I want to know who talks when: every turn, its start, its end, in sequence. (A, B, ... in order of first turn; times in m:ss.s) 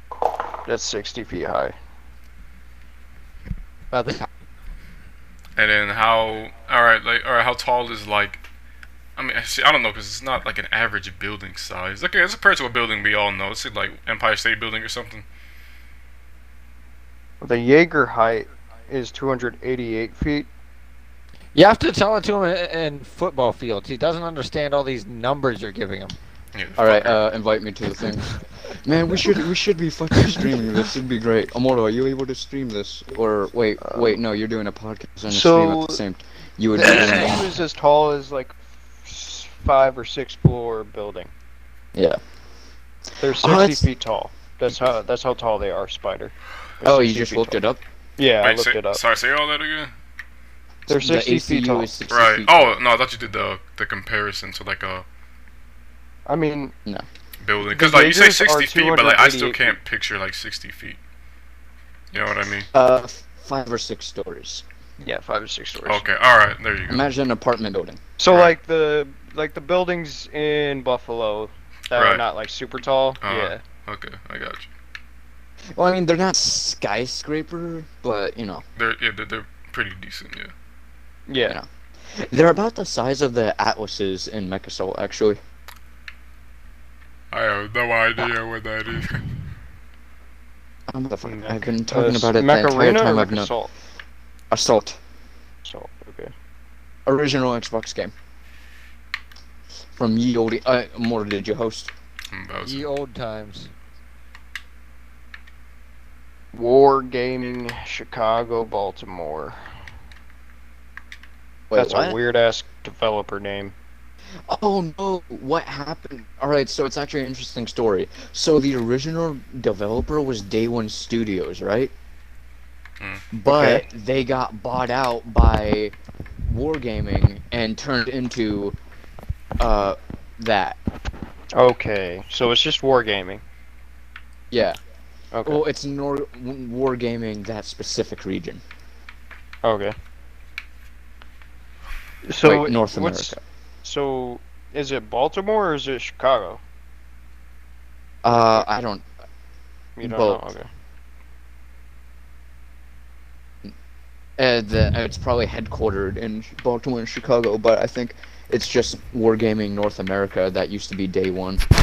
0:00.6-0:01.8 A
0:03.9-0:04.3 B
0:05.6-0:08.4 C
0:09.2-0:15.2 C
0:17.4-0:20.5 A
0:21.6-0:26.2 B
0:26.5-0:27.2 C
0:26.8-0:37.6 D
0:33.8-0:34.2 A
0:35.3-0:36.0 A
0:36.8-0:41.3 A
0:43.2-0:47.6 A
0:43.4-0:43.8 D
0:46.8-0:47.8 D
0:48.2-0:49.0 A
0:48.4-0:49.9 C
0:50.9-0:52.8 D
0:50.9-0:51.9 A
0:52.1-0:55.0 C
0:56.3-0:56.8 A
0:57.4-1:01.0 C
0:57.6-0:59.8 A
1:02.1-1:02.7 C
1:02.7-1:04.6 D
1:05.0-1:06.1 A
1:05.8-1:07.0 C
1:06.9-1:08.0 D
1:08.2-1:13.6 A
1:08.3-1:08.5 C
1:11.9-1:12.2 C
1:13.2-1:14.7 C
1:15.8-1:18.6 D
1:18.8-1:20.5 C
1:21.3-1:21.6 A
1:21.4-1:25.4 D
1:27.3-1:29.2 C
1:30.9-1:33.5 D
1:31.2-1:33.7 A
1:34.5-1:35.0 D
1:35.6-1:36.3 A
1:37.1-1:38.1 D
1:39.9-1:41.9 D
1:42.3-1:42.9 C
1:42.6-1:43.7 B
1:46.5-1:49.6 A
1:51.7-1:52.2 D
1:51.7-1:53.7 A
1:54.5-2:01.9 D
2:03.0-2:03.2 C
2:03.3-2:05.9 D
2:03.5-2:03.8 A
2:06.4-2:08.8 D
2:09.6-2:10.8 D
2:11.5-2:13.4 A
2:14.5-2:14.8 D
2:15.3-2:15.6 A
2:15.4-2:18.6 D
2:19.6-2:20.0 A
2:22.2-2:26.6 A
2:22.4-2:23.4 D
2:28.2-2:29.1 D
2:30.0-2:30.7 A
2:30.0-2:30.4 D
2:34.4-2:41.6 D